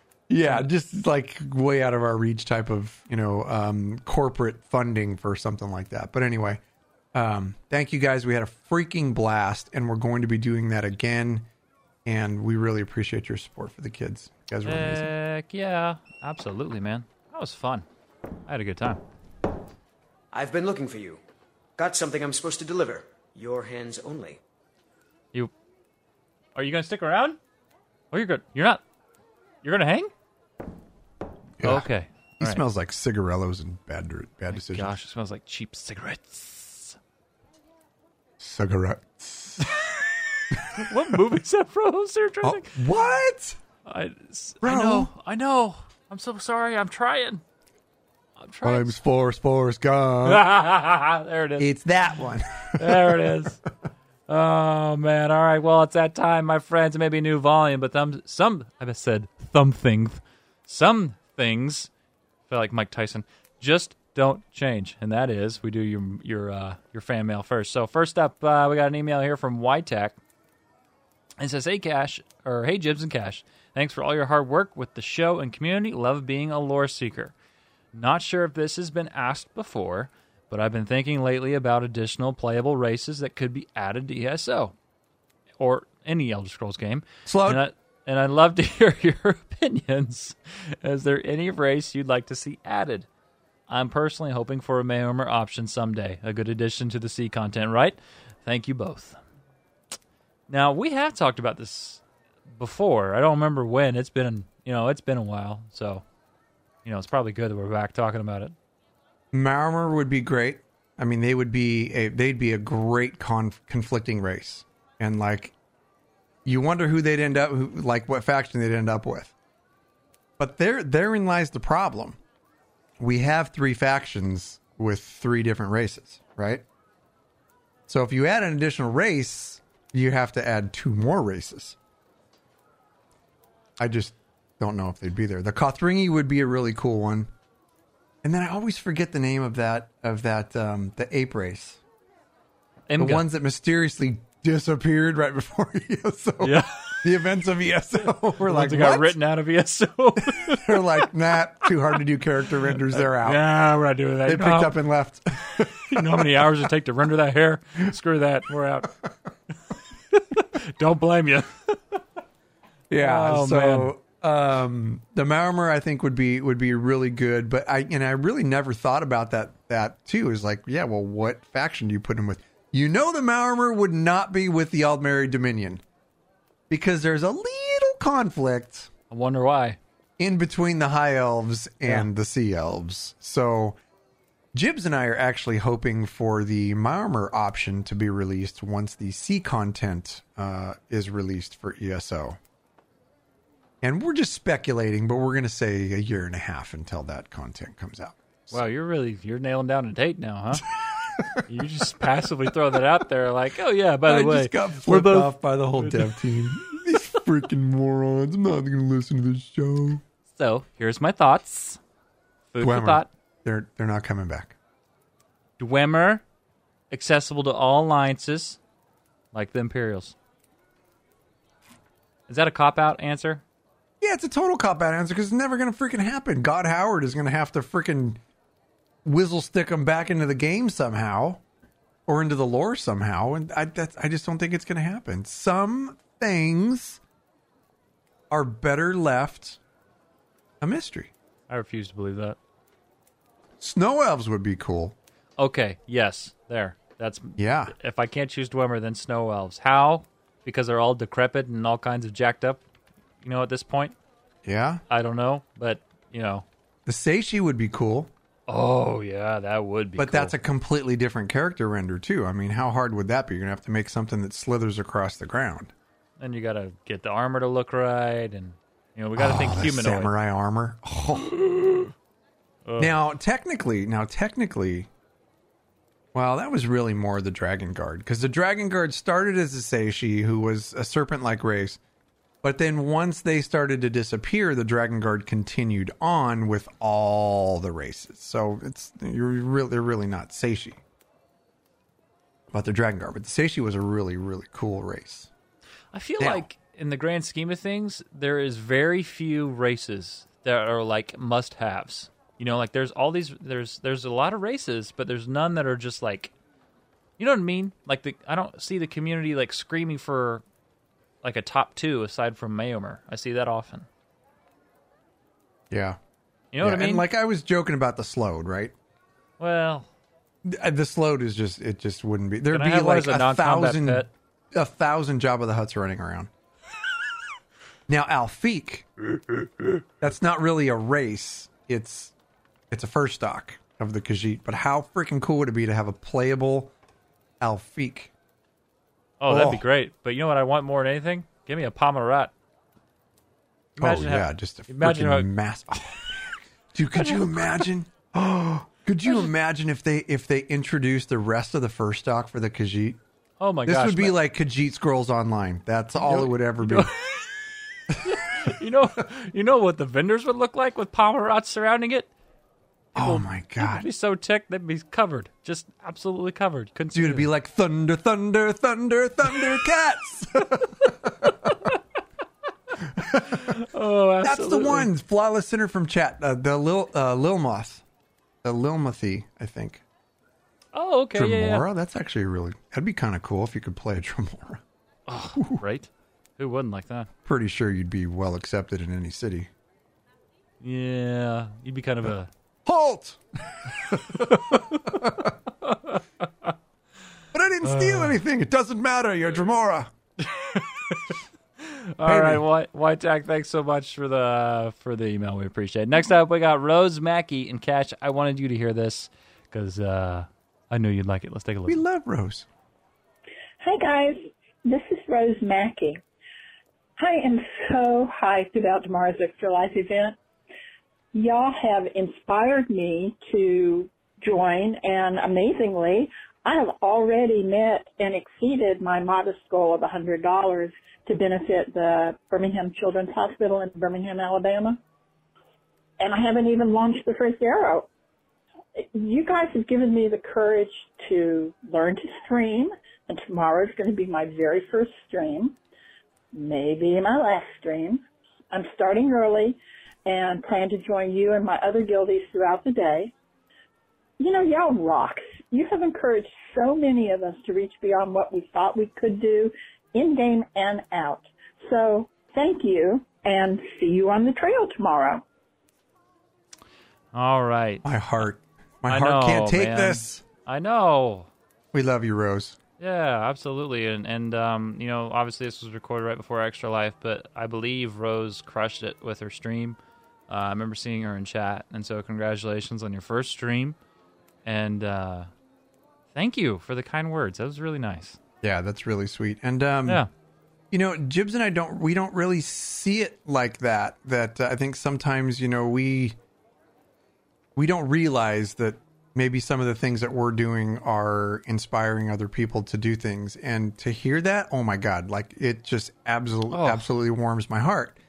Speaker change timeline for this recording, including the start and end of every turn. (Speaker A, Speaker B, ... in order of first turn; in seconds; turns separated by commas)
Speaker A: 0.3-6.6, Speaker B: 0.4-0.7, Speaker A: 7.1-11.5, Speaker A: 12.0-15.1, Speaker B: 14.6-17.9, Speaker B: 18.4-19.0, Speaker C: 20.3-21.2, Speaker C: 21.8-24.4, Speaker B: 26.6-27.4, Speaker B: 28.1-28.8, Speaker B: 29.6-30.1, Speaker A: 31.6-31.9, Speaker B: 31.6-32.6, Speaker A: 32.4-35.0, Speaker B: 34.5-37.0, Speaker A: 38.4-39.6, Speaker B: 39.6-42.8, Speaker A: 40.5-41.2, Speaker A: 42.4-43.6, Speaker B: 43.9-47.4, Speaker A: 44.6-45.1, Speaker B: 48.4-49.0, Speaker A: 48.6-50.5, Speaker B: 50.2-51.7, Speaker A: 51.6-53.3, Speaker B: 52.8-53.6, Speaker B: 54.3-61.9, Speaker B: 62.5-70.2, Speaker B: 71.4-77.3, Speaker B: 77.9-84.7, Speaker B: 85.6-93.1, Speaker A: 87.2-87.6, Speaker B: 93.7-99.2, Speaker B: 100.5-102.0, Speaker B: 102.5-106.0, Speaker B: 106.8-108.5, Speaker A: 109.3-115.5, Speaker A: 116.4-119.3, Speaker A: 120.4-122.2, Speaker A: 123.0-126.6, Speaker A: 127.9-131.8, Speaker A: 133.8-137.3, Speaker A: 138.2-141.8, Speaker B: 142.9-143.2, Speaker A: 143.0-149.2, Speaker B: 146.4-147.0, Speaker B: 148.4-151.0, Speaker A: 150.2-153.4, Speaker B: 152.8-154.8, Speaker A: 154.2-156.7, Speaker B: 155.8-159.0, Speaker B: 159.7-162.0, Speaker A: 162.9-175.8, Speaker B: 163.0-163.9, Speaker A: 176.7-178.9, Speaker B: 179.1-179.8, Speaker A: 180.2-183.8, Speaker A: 184.5-192.4, Speaker A: 193.8-198.6, Speaker B: 198.5-200.7, Speaker A: 200.8-201.4, Speaker B: 201.4-206.9, Speaker A: 204.1-210.0, Speaker B: 210.3-211.8, Speaker B: 212.5-213.1, Speaker A: 212.6-214.5, Speaker B: 215.6-216.2, Speaker B: 216.9-218.6, Speaker B: 219.3-220.1, Speaker B: 222.3-223.4, Speaker A: 224.0-228.2, Speaker A: 229.0-231.4, Speaker A: 232.1-237.0, Speaker A: 238.3-239.6, Speaker A: 240.6-241.1, Speaker B: 241.5-242.4, Speaker A: 243.6-244.9, Speaker B: 245.4-252.6, Speaker A: 247.4-247.7, Speaker B: 253.2-253.9, Speaker A: 254.4-254.8, Speaker B: 254.9-256.4, Speaker A: 256.9-258.1, Speaker B: 258.5-260.4, Speaker A: 260.0-265.7, Speaker B: 266.2-270.1, Speaker A: 269.1-271.9, Speaker B: 272.6-272.9, Speaker A: 272.8-274.9, Speaker A: 276.1-281.8, Speaker A: 282.4-290.8, Speaker A: 292.5-295.3, Speaker B: 295.9-306.3, Speaker A: 296.2-296.4, Speaker B: 307.2-310.4, Speaker B: 311.2-313.9, Speaker A: 315.7-316.0, Speaker B: 316.5-317.0, Speaker A: 316.6-318.7, Speaker B: 319.4-319.9, Speaker A: 320.4-326.3, Speaker B: 322.5-324.1, Speaker A: 327.9-332.1, Speaker A: 332.7-336.7, Speaker A: 337.4-338.1, Speaker B: 339.2-342.3, Speaker A: 339.3-339.6, Speaker B: 343.8-345.3, Speaker A: 343.8-353.0, Speaker B: 346.9-347.7, Speaker B: 353.4-354.1, Speaker A: 353.6-356.9, Speaker B: 356.0-362.1, Speaker A: 357.9-358.5, Speaker A: 362.9-363.9, Speaker B: 362.9-367.3, Speaker A: 366.9-371.6, Speaker B: 371.2-371.8, Speaker A: 372.9-373.5, Speaker B: 373.0-374.9, Speaker A: 374.2-377.8, Speaker A: 378.4-379.8, Speaker B: 380.7-381.6, Speaker A: 381.1-384.6, Speaker B: 385.1-387.1, Speaker A: 385.4-385.6, Speaker A: 387.2-389.5, Speaker B: 390.6-392.3, Speaker A: 392.6-395.3, Speaker B: 394.2-396.5, Speaker A: 397.3-399.9, Speaker B: 397.6-398.2, Speaker B: 400.2-411.8, Speaker A: 402.0-402.4, Speaker A: 411.7-412.5, Speaker D: 413.6-416.0, Speaker D: 417.0-420.2, Speaker D: 421.1-434.8, Speaker D: 436.0-437.9, Speaker D: 438.8-445.6, Speaker D: 446.3-453.1, Speaker D: 454.2-465.2, Speaker B: 467.1-467.8, Speaker A: 467.8-470.2, Speaker B: 468.9-471.3, Speaker A: 471.7-472.6, Speaker B: 472.8-479.8, Speaker B: 480.3-483.8, Speaker B: 484.4-485.3, Speaker B: 486.1-488.2, Speaker A: 488.4-490.0, Speaker A: 490.7-496.2, Speaker A: 497.6-508.0, Speaker B: 506.5-506.9